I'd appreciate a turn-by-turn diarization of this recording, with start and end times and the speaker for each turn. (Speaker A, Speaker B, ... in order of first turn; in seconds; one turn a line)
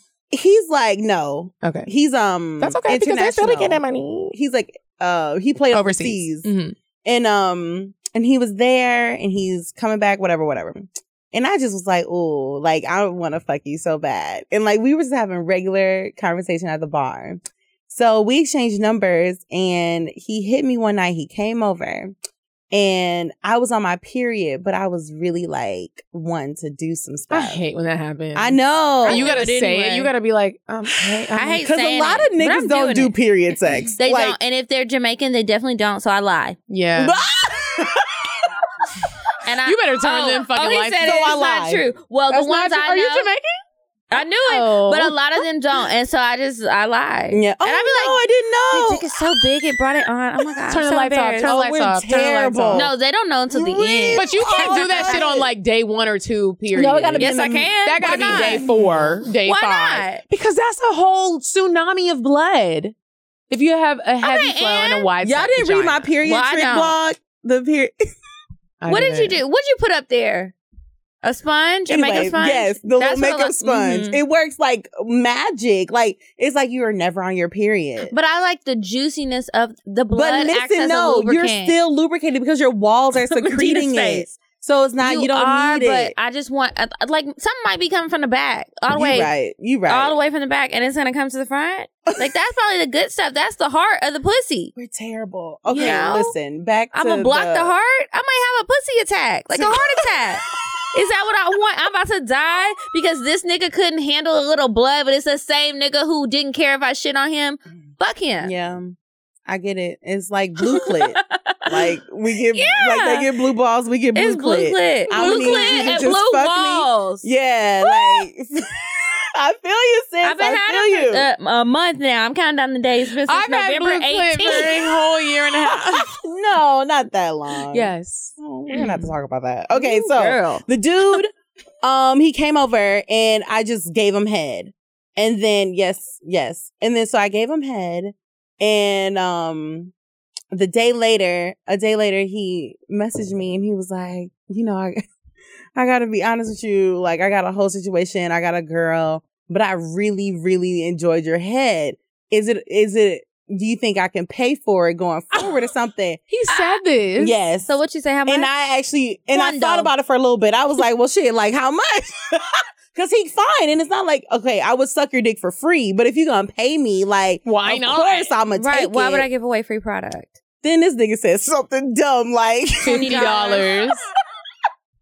Speaker A: 0.3-6.5
Speaker B: 1.6-1.9
Speaker B: 2.6-4.3
Speaker B: 5.7-6.8
Speaker A: 7.0-22.1
Speaker A: 22.7-27.6
Speaker B: 27.3-31.6
Speaker A: 28.3-29.4
Speaker C: 29.1-30.1
Speaker A: 31.0-34.4
Speaker C: 31.4-33.1
Speaker C: 34.0-36.6
Speaker B: 36.7-37.2
Speaker A: 37.0-38.3
Speaker C: 39.5-43.3
Speaker B: 39.6-41.2
Speaker A: 41.0-41.9
Speaker B: 42.3-43.5
Speaker C: 44.1-48.2
Speaker B: 44.1-45.1
Speaker A: 47.3-49.1
Speaker C: 48.7-51.5
Speaker B: 50.7-52.9
Speaker A: 51.4-52.9
Speaker C: 52.7-55.2
Speaker A: 53.5-55.5
Speaker B: 54.2-57.3
Speaker A: 56.7-59.2
Speaker C: 57.2-58.6
Speaker B: 57.9-62.9
Speaker C: 59.4-60.2
Speaker B: 63.5-66.1
Speaker C: 64.2-65.1
Speaker A: 65.2-68.0
Speaker C: 66.2-67.0
Speaker B: 68.8-69.4
Speaker C: 68.9-70.5
Speaker C: 71.2-74.2
Speaker A: 71.9-78.1
Speaker C: 78.1-81.8
Speaker A: 80.1-86.1
Speaker C: 83.3-84.3
Speaker C: 85.0-89.3
Speaker A: 88.9-90.2
Speaker C: 89.9-94.7
Speaker A: 94.8-97.7
Speaker C: 95.7-96.3
Speaker B: 95.8-96.2
Speaker C: 96.9-108.5
Speaker A: 99.5-100.0
Speaker A: 108.4-121.2
Speaker C: 110.7-111.7
Speaker C: 112.5-113.3
Speaker C: 114.2-117.3
Speaker B: 115.1-116.0
Speaker C: 117.9-118.2
Speaker C: 120.2-124.7
Speaker B: 123.3-126.1
Speaker A: 124.4-124.8
Speaker A: 125.8-139.9
Speaker B: 127.7-129.1
Speaker C: 129.7-130.7
Speaker A: 140.5-145.0
Speaker A: 145.8-156.2
Speaker B: 156.3-157.4
Speaker A: 157.2-162.4
Speaker C: 157.7-158.5
Speaker C: 159.3-159.9
Speaker A: 162.9-169.3
Speaker B: 167.4-168.3
Speaker C: 168.6-170.4
Speaker A: 170.6-173.7
Speaker B: 172.8-174.1
Speaker C: 172.8-173.7